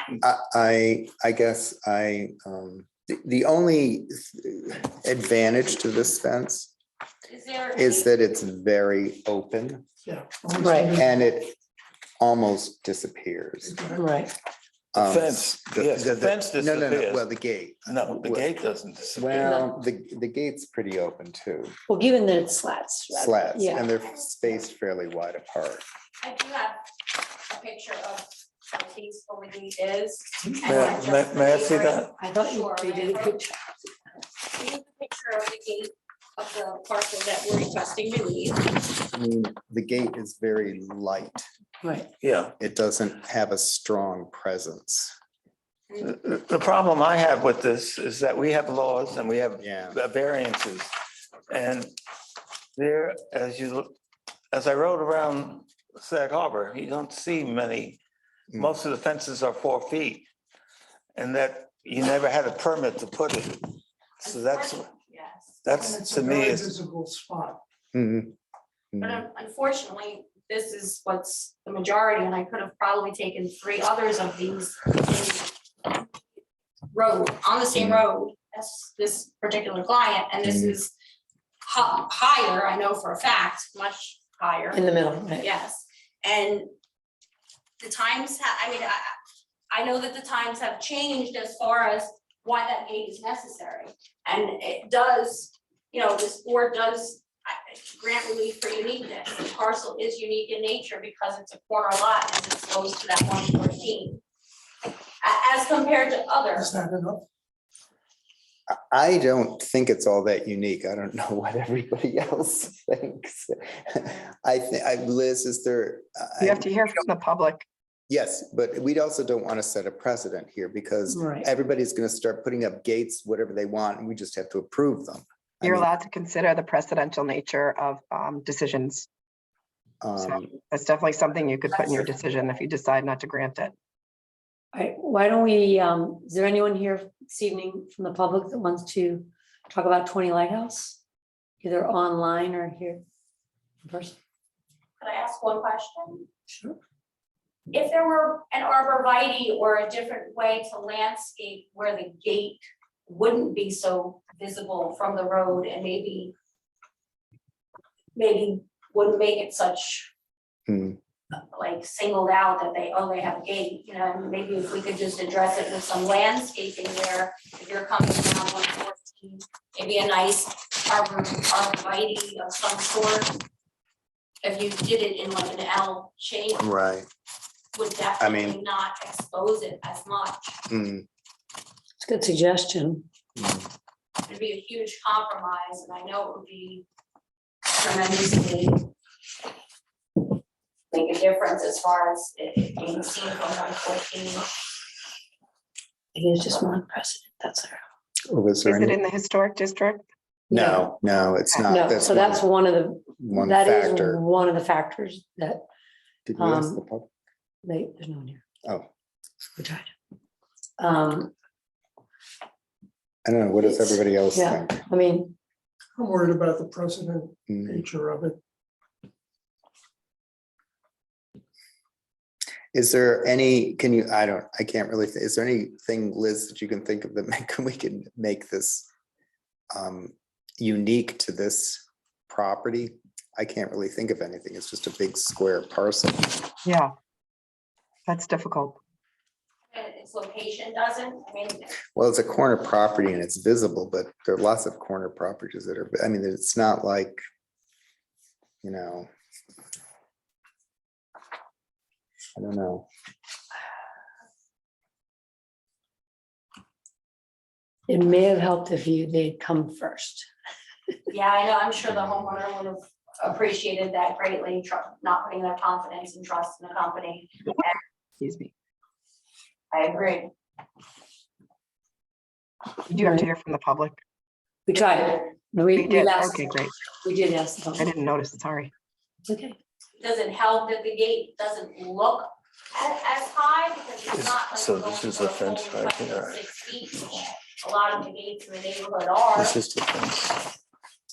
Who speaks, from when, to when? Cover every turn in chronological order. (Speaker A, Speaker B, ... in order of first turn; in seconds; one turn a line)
Speaker A: 0.2-6.7
Speaker B: 7.3-8.1
Speaker A: 7.8-9.8
Speaker C: 10.1-11.1
Speaker D: 10.6-10.9
Speaker A: 11.0-11.6
Speaker A: 12.2-13.8
Speaker C: 13.6-14.1
Speaker D: 13.9-14.3
Speaker A: 14.9-18.5
Speaker E: 15.0-17.3
Speaker E: 17.9-19.6
Speaker A: 19.1-21.7
Speaker D: 21.9-23.9
Speaker A: 23.1-25.8
Speaker B: 26.2-26.8
Speaker B: 27.5-33.5
Speaker D: 30.5-30.9
Speaker E: 30.6-32.1
Speaker D: 32.2-33.6
Speaker B: 34.4-38.6
Speaker A: 39.1-41.5
Speaker D: 41.8-42.1
Speaker E: 42.2-42.5
Speaker A: 42.6-45.1
Speaker E: 46.0-50.9
Speaker A: 49.6-50.0
Speaker E: 51.5-51.9
Speaker E: 52.8-53.9
Speaker E: 54.5-58.0
Speaker E: 58.5-60.3
Speaker E: 61.2-63.6
Speaker E: 64.2-64.9
Speaker B: 64.2-65.6
Speaker E: 65.6-66.7
Speaker C: 65.7-67.6
Speaker A: 67.9-68.3
Speaker A: 68.9-69.2
Speaker B: 69.0-76.0
Speaker B: 76.9-80.9
Speaker A: 77.8-78.0
Speaker A: 80.5-80.8
Speaker B: 81.7-84.8
Speaker D: 84.7-85.5
Speaker B: 85.4-86.7
Speaker B: 87.8-89.2
Speaker B: 89.7-104.2
Speaker B: 105.2-106.7
Speaker C: 106.6-107.2
Speaker A: 108.9-116.7
Speaker F: 116.4-117.7
Speaker A: 118.1-125.9
Speaker D: 121.1-121.5
Speaker F: 125.6-129.1
Speaker A: 130.0-130.5
Speaker F: 130.2-133.8
Speaker D: 134.7-141.0
Speaker D: 141.6-143.0
Speaker D: 143.8-144.2
Speaker B: 145.0-146.3
Speaker B: 147.7-156.3
Speaker B: 158.2-160.1
Speaker A: 160.7-161.0
Speaker B: 161.5-173.3
Speaker B: 174.4-176.7
Speaker A: 176.6-177.1
Speaker B: 177.7-180.6
Speaker A: 178.2-178.6
Speaker A: 180.7-181.1
Speaker D: 182.0-183.1
Speaker A: 183.4-183.7
Speaker B: 184.2-186.9
Speaker B: 187.7-188.9
Speaker B: 190.9-194.5
Speaker D: 196.2-197.8
Speaker A: 198.3-199.0
Speaker F: 198.7-200.0
Speaker D: 200.5-200.9
Speaker A: 200.5-202.5
Speaker D: 201.7-205.7
Speaker A: 203.2-204.2
Speaker A: 206.3-207.1
Speaker D: 206.4-206.8
Speaker D: 207.6-208.4
Speaker D: 209.6-209.9
Speaker D: 210.8-211.3
Speaker A: 213.2-214.8
Speaker D: 213.6-215.3
Speaker C: 216.0-218.4
Speaker A: 217.5-217.8
Speaker A: 222.7-228.9
Speaker A: 229.7-236.4
Speaker F: 236.7-236.9
Speaker F: 238.1-238.8
Speaker B: 239.7-241.7
Speaker A: 242.0-247.2
Speaker A: 248.6-249.1
Speaker A: 252.4-252.9
Speaker D: 257.9-260.3
Speaker B: 261.1-267.8
Speaker F: 268.2-268.5
Speaker B: 269.7-270.3
Speaker F: 272.9-274.0
Speaker D: 273.0-273.3
Speaker D: 274.7-277.9
Speaker F: 275.8-276.8
Speaker F: 277.8-278.7
Speaker D: 279.3-279.6
Speaker B: 280.0-289.6
Speaker E: 284.1-286.4
Speaker E: 289.4-290.4